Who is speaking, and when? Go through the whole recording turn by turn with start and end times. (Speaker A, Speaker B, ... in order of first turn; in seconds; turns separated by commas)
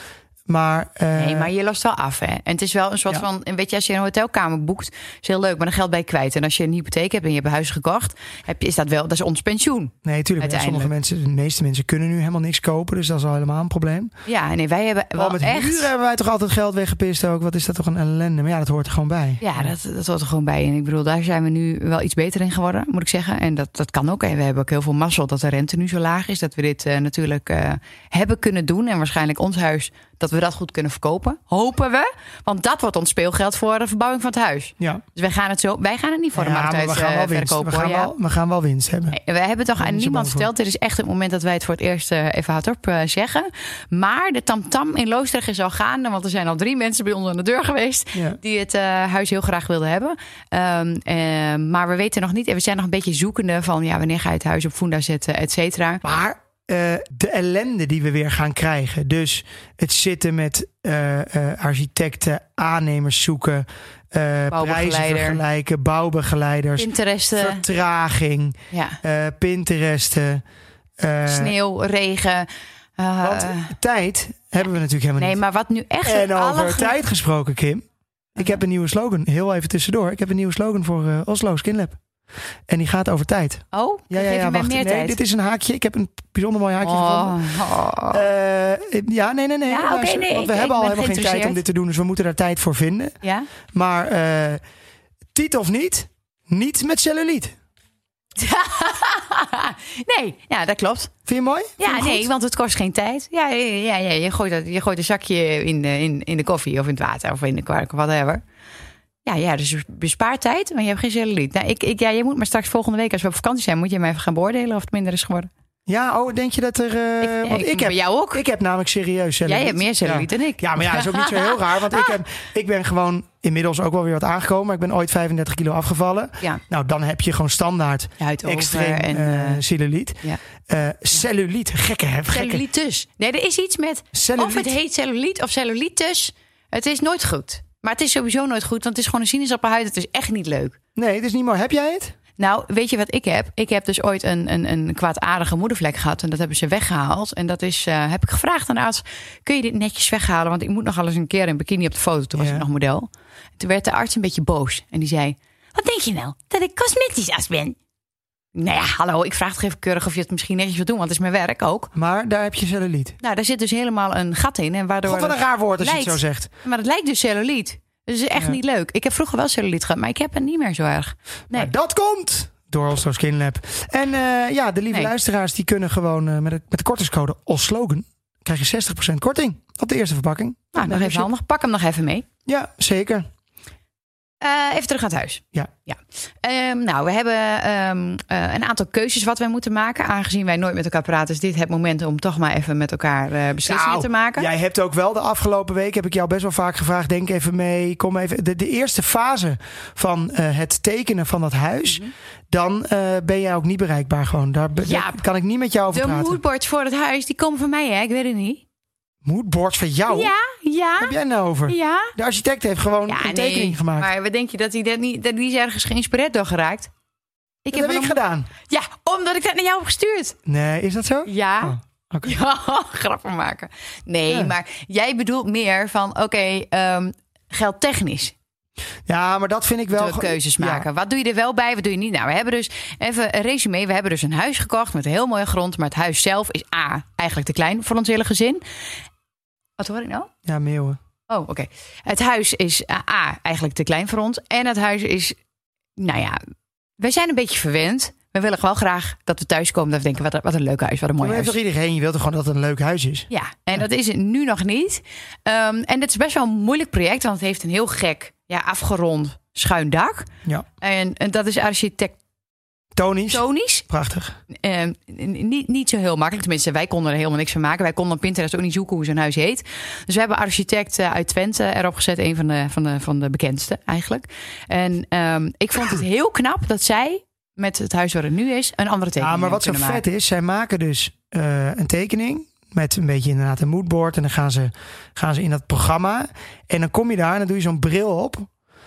Speaker A: 0.5-1.5, Speaker B: 1.2-10.9, Speaker A: 10.1-14.1, Speaker B: 14.3-15.9, Speaker A: 15.2-19.7, Speaker B: 19.4-38.1, Speaker A: 36.4-39.2, Speaker B: 39.1-56.0, Speaker A: 39.8-40.5, Speaker A: 56.0-70.4, Speaker B: 64.5-65.4, Speaker B: 66.8-67.7, Speaker B: 68.7-69.0, Speaker A: 71.0-71.5, Speaker B: 71.3-73.7, Speaker A: 73.2-75.4, Speaker B: 75.2-77.0, Speaker A: 76.0-82.0, Speaker A: 82.7-87.5, Speaker B: 83.7-85.2, Speaker B: 86.8-88.2, Speaker A: 88.1-93.2, Speaker B: 89.7-91.6, Speaker B: 93.2-93.5, Speaker A: 93.7-94.6, Speaker A: 95.3-97.6, Speaker B: 98.4-101.1, Speaker A: 101.3-102.3, Speaker B: 101.8-108.4, Speaker B: 109.2-115.5, Speaker A: 115.9-132.6, Speaker B: 117.2-118.4, Speaker B: 119.5-122.1, Speaker B: 128.2-129.6, Speaker B: 132.3-140.8, Speaker A: 134.1-134.8, Speaker A: 141.0-142.2, Speaker B: 142.4-157.8, Speaker A: 152.4-152.7, Speaker B: 158.6-161.9, Speaker A: 161.9-163.2, Speaker B: 163.2-171.7, Speaker A: 165.1-166.5, Speaker A: 171.5-181.3, Speaker B: 180.7-182.3, Speaker A: 182.5-183.3, Speaker B: 184.4-194.5, Speaker A: 193.7-206.4, Speaker B: 204.8-205.2, Speaker B: 205.9-208.6, Speaker A: 209.2-210.3, Speaker B: 210.1-211.1, Speaker A: 211.0-214.1, Speaker B: 211.7-212.1, Speaker B: 213.1-216.9, Speaker B: 217.7-220.4, Speaker A: 217.7-218.5, Speaker A: 220.5-222.4, Speaker B: 221.3-228.3, Speaker A: 224.3-224.5, Speaker A: 229.1-230.9, Speaker B: 229.9-238.6, Speaker B: 239.8-240.3, Speaker A: 240.5-241.0, Speaker B: 241.3-245.4, Speaker B: 246.0-246.4, Speaker B: 247.0-251.6, Speaker A: 251.2-253.3, Speaker B: 253.3-260.3, Speaker B: 260.8-262.2, Speaker A: 263.0-264.4, Speaker B: 263.3-263.9, Speaker B: 264.5-280.0, Speaker A: 279.2-288.5